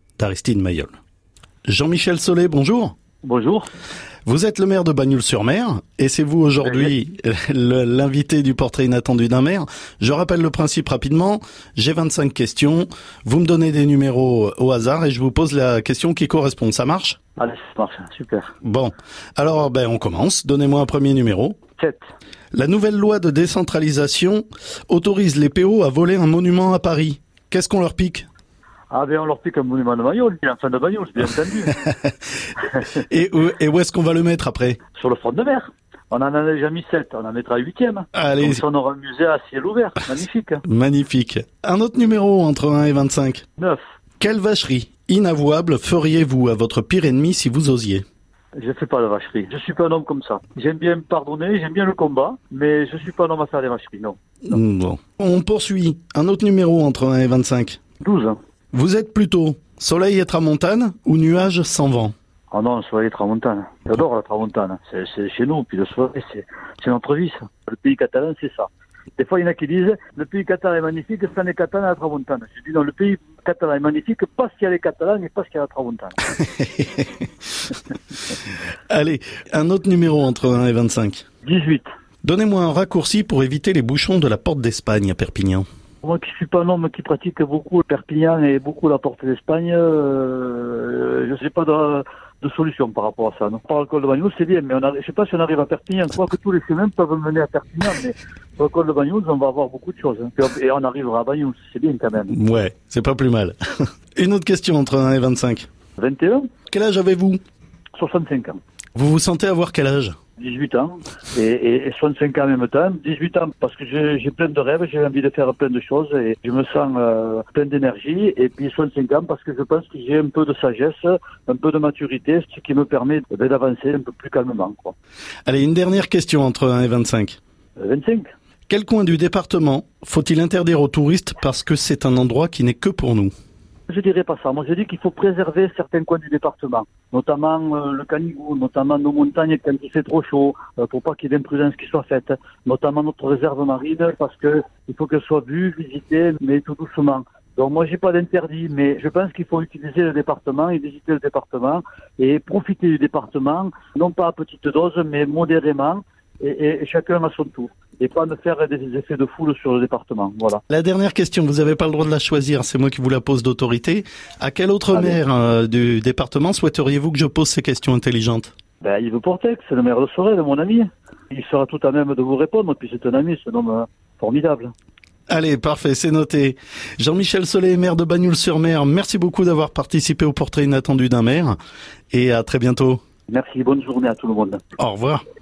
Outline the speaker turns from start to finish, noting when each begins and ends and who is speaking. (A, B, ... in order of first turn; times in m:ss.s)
0:00.2-0:01.0 A
0:01.7-0:03.0 A
0:03.2-0:03.7 B
0:04.3-0:17.2 A
0:06.6-0:06.9 B
0:17.4-0:18.5 B
0:18.6-0:21.6 A
0:22.5-0:28.3 A
0:28.9-0:31.8 B
0:32.9-0:34.8 A
0:35.0-0:40.6 B
0:38.1-0:38.6 A
0:40.6-0:43.4 A
0:44.2-0:48.0 A
0:48.6-0:54.2 B
0:54.5-0:57.8 A
0:58.0-0:58.4 B
0:58.7-1:02.1 A
1:02.5-1:16.2 B
1:16.6-1:17.1 A
1:18.9-1:21.2 A
1:21.4-1:21.9 B
1:22.2-1:25.6 A
1:26.0-1:42.3 B
1:42.3-1:45.7 A
1:46.0-1:46.5 B
1:46.7-1:47.4 A
1:48.0-1:48.6 B
1:49.0-1:50.2 A
1:50.4-2:05.0 B
2:05.5-2:07.4 A
2:07.8-2:08.3 B
2:08.7-2:13.3 A
2:13.9-2:40.6 B
2:40.7-2:48.5 A
2:48.8-2:54.7 B
2:55.3-3:01.6 A
3:02.1-3:03.0 A
3:03.3-3:04.6 B
3:04.8-3:05.2 A